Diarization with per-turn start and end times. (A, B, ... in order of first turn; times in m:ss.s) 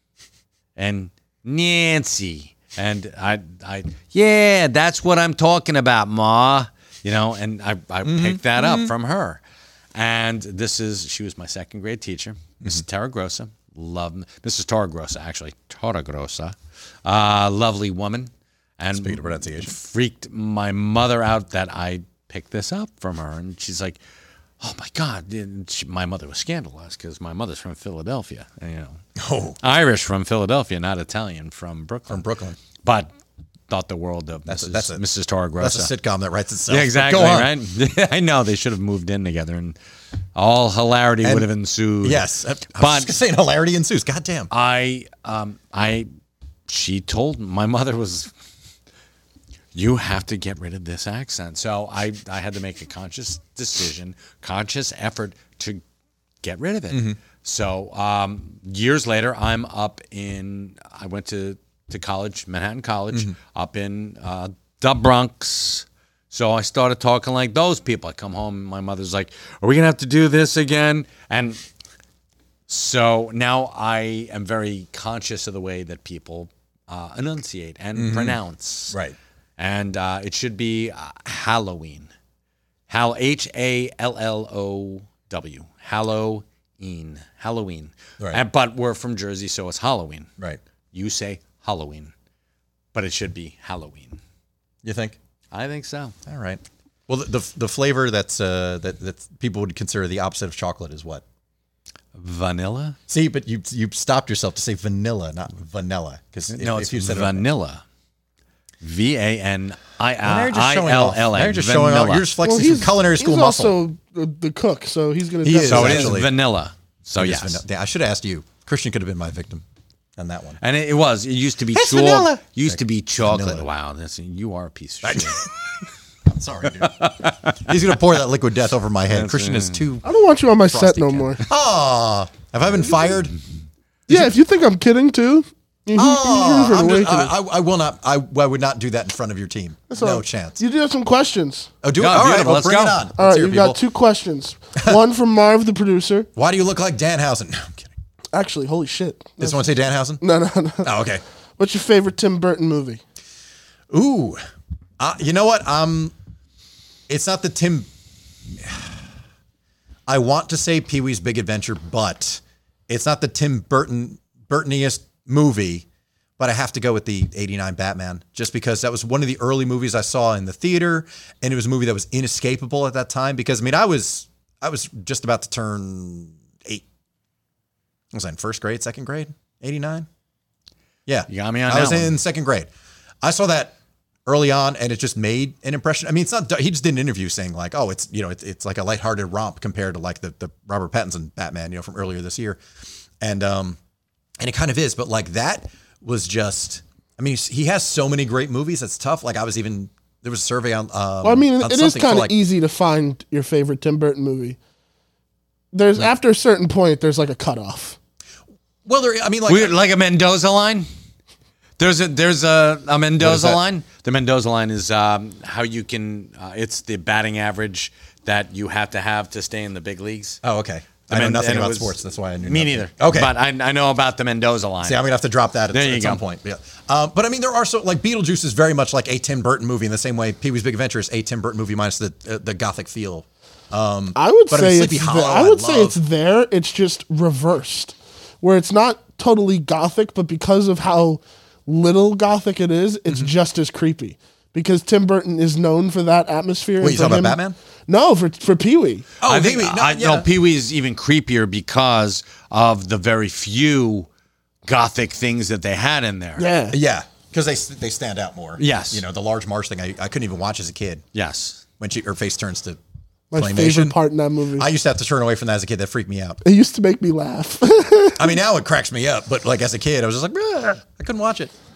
0:00.8-0:09.4 A
0:08.0-0:08.9 B
0:09.9-0:24.0 A
0:18.9-0:19.7 B
0:24.6-0:29.0 A
0:29.2-0:29.6 B
0:29.6-0:32.2 A
0:32.1-0:32.6 B
0:32.8-0:33.1 A
0:33.7-0:35.9 A
0:34.5-0:35.0 B
0:35.6-0:37.5 B
0:36.7-0:39.8 A
0:40.3-0:43.1 A
0:41.2-0:41.5 B
0:42.0-0:44.5 B
0:44.5-0:46.1 A
0:46.7-0:48.3 A
0:49.7-0:55.8 A
0:56.4-1:11.6 A
0:56.9-0:57.2 B
1:12.7-1:19.0 A
1:17.9-1:18.4 B
1:18.9-1:19.2 B
1:19.6-1:22.1 A
1:22.9-1:30.3 A
1:30.9-1:32.1 A
1:32.9-1:34.2 A
1:34.8-1:35.2 B
1:35.5-1:36.2 A
1:36.2-1:41.2 B
1:42.1-1:43.0 A
1:43.1-1:47.4 B
1:46.5-1:47.8 A
1:48.8-1:52.3 A
1:50.2-1:53.7 B
1:52.4-1:56.2 C
1:55.4-1:56.3 B
1:55.6-1:57.6 A
1:57.2-1:59.6 B
2:00.2-2:00.6 B
2:00.6-2:05.4 A
2:01.7-2:03.7 B
2:05.0-2:05.7 B
2:06.2-2:10.1 B
2:06.9-2:07.7 A
2:09.1-2:09.9 A
2:10.0-2:11.4 C
2:10.7-2:13.4 B
2:14.1-2:17.3 C
2:15.9-2:20.6 B
2:19.9-2:21.7 C
2:21.8-2:23.8 B
2:21.9-2:23.0 A
2:23.2-2:26.3 C
2:26.4-2:27.9 B
2:28.3-2:29.7 C
2:29.4-2:30.2 B
2:30.2-2:30.9 C
2:30.8-2:31.2 B
2:31.6-2:33.0 C
2:33.9-2:34.4 B
2:35.0-2:36.1 B
2:37.1-2:37.9 B
2:38.6-2:39.0 B
2:40.1-2:45.8 B
2:46.4-2:56.8 B
2:58.1-3:00.1 B
3:01.0-3:02.7 B
3:01.3-3:02.2 A
3:03.2-3:03.7 B
3:04.2-3:12.6 B
3:13.2-3:13.8 B
3:14.4-3:22.3 B
3:21.2-3:24.6 C
3:25.7-3:28.0 C
3:28.8-3:29.7 B
3:29.5-3:30.9 A
3:31.8-3:40.4 A
3:33.2-3:33.6 B
3:40.4-3:43.3 B
3:41.1-3:45.0 A
3:44.8-3:56.0 B
3:45.7-3:46.2 A
3:54.2-4:09.1 C
4:06.8-4:07.6 B
4:09.2-4:10.3 B
4:09.2-4:14.1 A
4:14.6-4:16.5 A
4:16.4-4:16.8 C
4:16.7-4:21.0 B
4:18.6-4:19.0 A
4:21.1-4:21.6 A
4:21.8-4:22.8 B
4:23.3-4:24.7 C
4:23.3-4:24.0 B
4:24.5-4:26.4 B
4:26.4-4:28.4 C
4:28.2-4:31.5 B